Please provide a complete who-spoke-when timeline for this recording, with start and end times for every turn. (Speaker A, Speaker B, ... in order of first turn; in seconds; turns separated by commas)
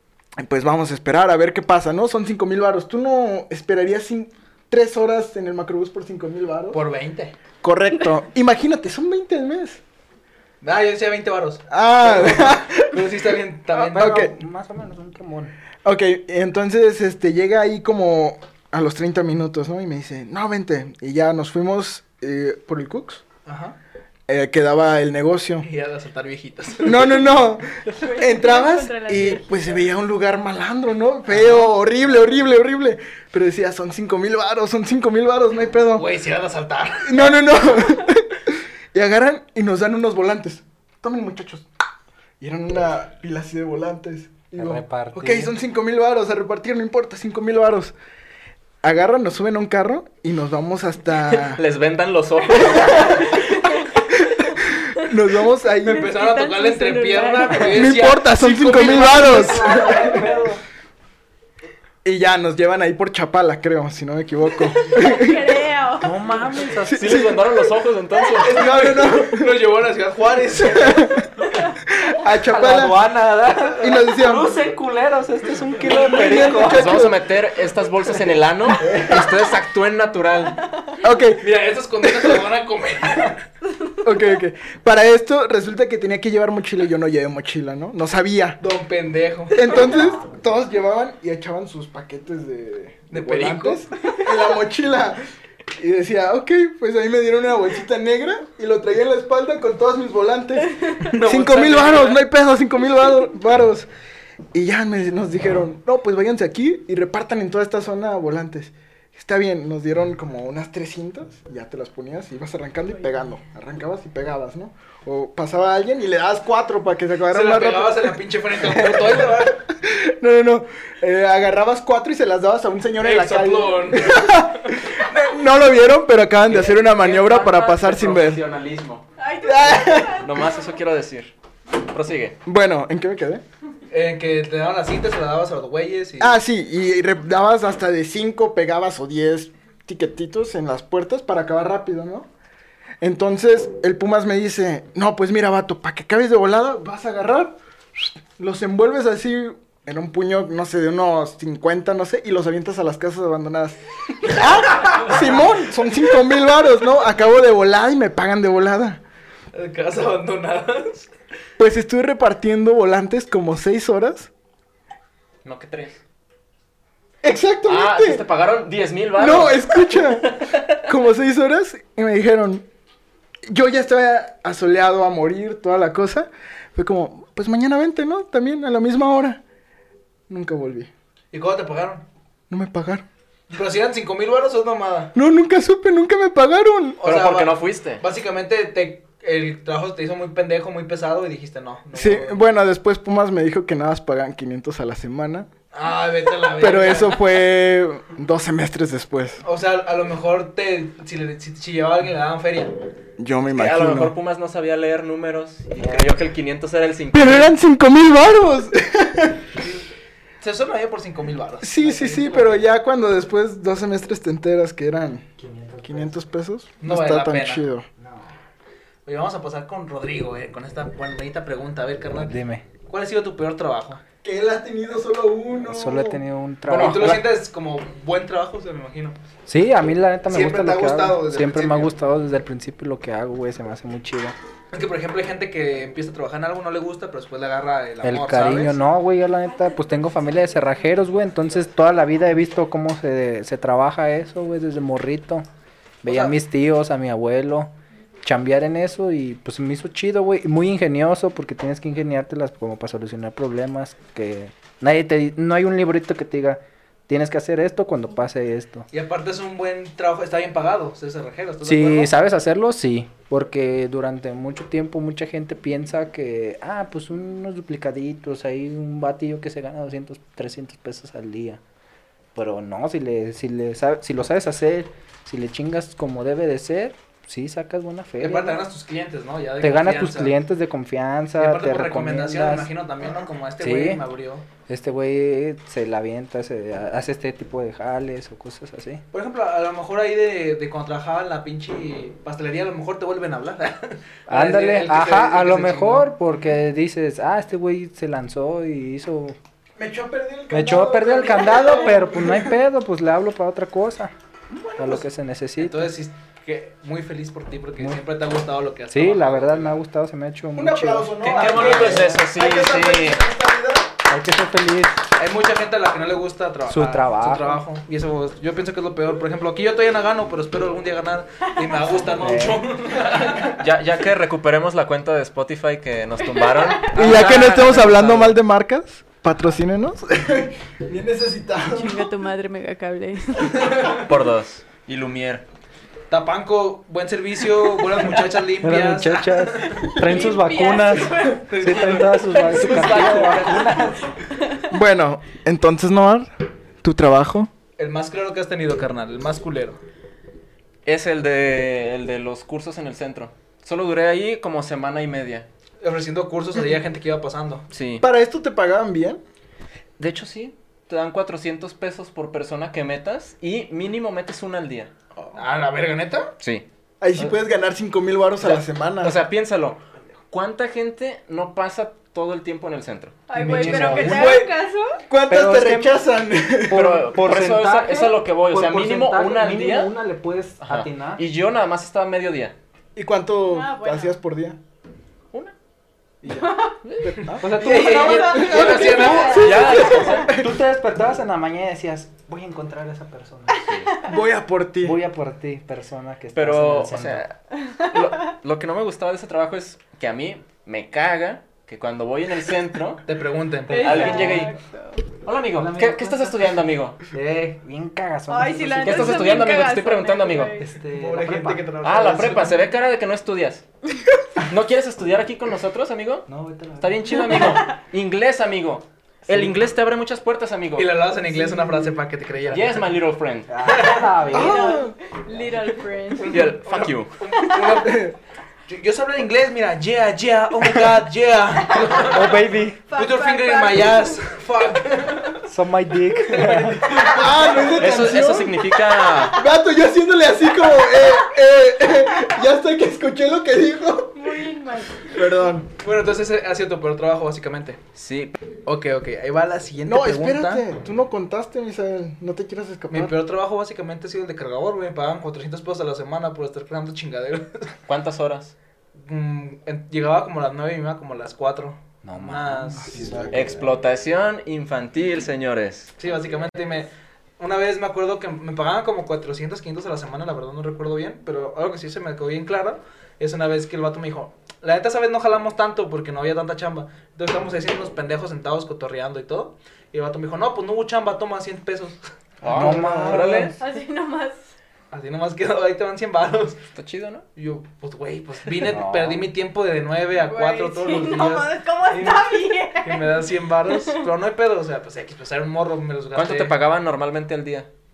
Speaker A: 0.4-6.8, Speaker B: 6.7-7.3, Speaker A: 7.6-9.8, Speaker B: 10.6-14.2, Speaker A: 11.7-13.0, Speaker A: 13.7-14.3, Speaker C: 13.8-15.5, Speaker A: 15.8-23.2, Speaker B: 23.4-23.7, Speaker A: 24.3-25.7, Speaker B: 25.6-27.4, Speaker A: 26.8-36.1, Speaker D: 27.9-29.8, Speaker B: 35.9-37.5, Speaker A: 37.0-41.6, Speaker A: 42.4-47.9, Speaker C: 44.6-45.5, Speaker A: 48.8-51.6, Speaker E: 51.3-53.4, Speaker A: 52.6-53.5, Speaker D: 52.9-54.1, Speaker A: 54.1-56.1, Speaker D: 55.8-58.0, Speaker B: 55.8-60.1, Speaker A: 57.6-60.3, Speaker C: 58.7-60.6, Speaker A: 62.0-65.6, Speaker D: 64.8-66.5, Speaker C: 66.0-67.2, Speaker A: 66.9-67.7, Speaker E: 66.9-68.9, Speaker D: 68.2-68.7, Speaker A: 68.3-69.6, Speaker B: 68.7-71.2, Speaker A: 70.5-71.3, Speaker D: 71.5-71.7, Speaker A: 71.8-73.0, Speaker C: 72.4-77.0, Speaker A: 73.8-74.6, Speaker A: 75.8-77.3, Speaker B: 75.9-76.5, Speaker E: 76.7-80.7, Speaker A: 78.7-79.3, Speaker A: 81.0-81.4, Speaker B: 81.4-83.4, Speaker A: 82.0-82.4, Speaker A: 84.0-88.6, Speaker B: 88.6-89.8, Speaker A: 89.5-95.2, Speaker C: 89.9-90.3, Speaker B: 93.1-93.8, Speaker A: 95.7-103.9, Speaker B: 101.0-102.2, Speaker A: 104.5-128.4, Speaker B: 117.3-119.5, Speaker B: 123.0-125.1, Speaker E: 126.4-129.0, Speaker D: 129.2-130.8, Speaker A: 129.4-130.2, Speaker E: 130.1-132.4, Speaker A: 132.4-133.4, Speaker B: 133.9-136.4, Speaker A: 136.2-142.3, Speaker A: 143.0-147.6, Speaker A: 148.3-159.0, Speaker B: 154.8-155.2, Speaker B: 159.5-161.1, Speaker A: 161.6-164.3, Speaker E: 165.4-166.0, Speaker A: 167.2-168.2, Speaker E: 167.6-170.9, Speaker A: 169.1-172.6, Speaker A: 173.5-179.4, Speaker A: 180.3-180.9, Speaker B: 181.3-182.0, Speaker A: 182.5-183.0, Speaker B: 183.5-185.1, Speaker A: 185.1-187.0, Speaker B: 187.0-192.4, Speaker E: 187.0-188.0, Speaker A: 191.9-195.5, Speaker B: 195.7-197.2, Speaker A: 196.6-199.4, Speaker B: 199.4-202.7, Speaker A: 203.2-204.2, Speaker E: 203.5-207.5, Speaker C: 205.8-206.1, Speaker A: 207.1-209.4, Speaker B: 210.4-212.6, Speaker A: 211.6-215.3, Speaker C: 215.4-216.2, Speaker A: 215.8-217.8, Speaker B: 216.8-217.6, Speaker C: 218.0-218.3, Speaker B: 219.1-222.3, Speaker C: 222.1-222.7, Speaker B: 222.9-224.0, Speaker A: 224.2-226.2, Speaker C: 225.6-227.2, Speaker E: 226.7-227.2, Speaker B: 226.7-229.2, Speaker C: 229.5-234.3, Speaker A: 230.3-231.9, Speaker B: 234.7-238.8, Speaker C: 238.0-245.4, Speaker B: 246.0-246.4, Speaker C: 246.0-247.7, Speaker C: 248.2-258.9, Speaker B: 258.9-262.1, Speaker C: 261.6-271.6, Speaker C: 272.3-278.6, Speaker B: 278.2-280.4, Speaker C: 279.6-282.7, Speaker B: 281.4-284.4, Speaker C: 283.6-284.0, Speaker C: 284.7-289.0, Speaker B: 289.1-296.1, Speaker C: 294.3-299.4, Speaker A: 299.8-302.6, Speaker C: 300.5-304.1, Speaker B: 304.6-305.0, Speaker C: 304.8-305.9, Speaker B: 305.6-309.8, Speaker C: 308.9-312.1, Speaker A: 310.5-313.9, Speaker B: 311.2-312.1, Speaker E: 311.2-313.2, Speaker C: 314.1-315.0, Speaker B: 315.2-323.6, Speaker C: 316.7-317.6, Speaker C: 322.1-322.6, Speaker E: 323.5-328.4, Speaker D: 326.3-326.9, Speaker A: 326.9-332.0, Speaker D: 331.7-333.9, Speaker B: 333.7-334.0, Speaker E: 333.9-335.4, Speaker B: 336.1-339.9, Speaker C: 338.6-344.2, Speaker D: 339.8-342.0, Speaker B: 341.5-343.2, Speaker E: 342.4-343.8, Speaker A: 344.7-346.3, Speaker A: 346.8-347.5, Speaker B: 347.8-349.8, Speaker E: 350.8-355.5, Speaker B: 355.8-357.7, Speaker E: 357.7-358.1, Speaker A: 358.0-359.2, Speaker E: 360.0-364.9, Speaker B: 365.3-366.3, Speaker E: 366.4-367.3, Speaker A: 367.0-369.2, Speaker E: 368.4-373.9, Speaker D: 373.3-375.0, Speaker C: 373.3-374.4, Speaker A: 373.7-376.9, Speaker C: 375.3-376.0, Speaker C: 376.6-381.2, Speaker E: 376.7-379.9, Speaker E: 380.6-382.5, Speaker A: 382.9-384.6, Speaker D: 383.4-384.2, Speaker A: 386.2-390.5, Speaker D: 386.4-386.7, Speaker E: 386.8-387.1, Speaker C: 387.4-389.1, Speaker B: 387.4-389.9, Speaker D: 387.7-390.3, Speaker E: 389.1-390.3, Speaker C: 390.2-393.6, Speaker D: 393.6-394.1, Speaker E: 393.6-394.0, Speaker A: 394.0-395.0, Speaker C: 394.8-397.2, Speaker E: 396.3-403.1, Speaker D: 397.6-398.2, Speaker B: 403.1-404.0, Speaker C: 403.7-404.5, Speaker D: 403.7-405.0, Speaker E: 403.7-404.5, Speaker E: 405.2-407.0, Speaker C: 405.5-409.4, Speaker D: 408.3-410.7, Speaker E: 408.6-410.6, Speaker C: 410.6-411.7, Speaker B: 410.9-412.7, Speaker E: 411.8-413.6, Speaker E: 414.4-416.3, Speaker C: 416.3-417.3, Speaker E: 416.8-420.9, Speaker D: 417.2-417.7, Speaker B: 420.8-422.9, Speaker E: 422.5-423.5, Speaker C: 423.5-424.8, Speaker B: 423.6-424.2, Speaker D: 424.3-426.5, Speaker A: 424.3-424.9, Speaker B: 426.2-428.0, Speaker E: 426.3-427.1, Speaker A: 427.5-428.1, Speaker B: 428.7-432.4, Speaker C: 432.1-432.8, Speaker D: 432.9-434.3, Speaker B: 432.9-435.5, Speaker C: 435.4-437.1, Speaker B: 436.2-437.7, Speaker A: 437.0-438.6, Speaker E: 437.8-439.4, Speaker A: 439.3-444.1, Speaker D: 444.1-445.4, Speaker A: 445.1-445.7, Speaker B: 445.8-447.8, Speaker E: 447.9-448.4, Speaker B: 448.6-450.6, Speaker A: 449.9-453.1, Speaker B: 452.9-457.7, Speaker E: 457.9-458.5, Speaker B: 459.1-463.0, Speaker C: 462.0-463.5, Speaker A: 462.8-463.6, Speaker E: 463.3-465.9, Speaker B: 466.0-483.3, Speaker E: 482.4-483.5, Speaker C: 482.4-483.5, Speaker D: 483.6-484.5, Speaker B: 484.9-486.6, Speaker E: 486.7-487.2, Speaker B: 487.4-496.5, Speaker C: 488.6-489.3, Speaker D: 490.2-494.1, Speaker E: 496.1-497.7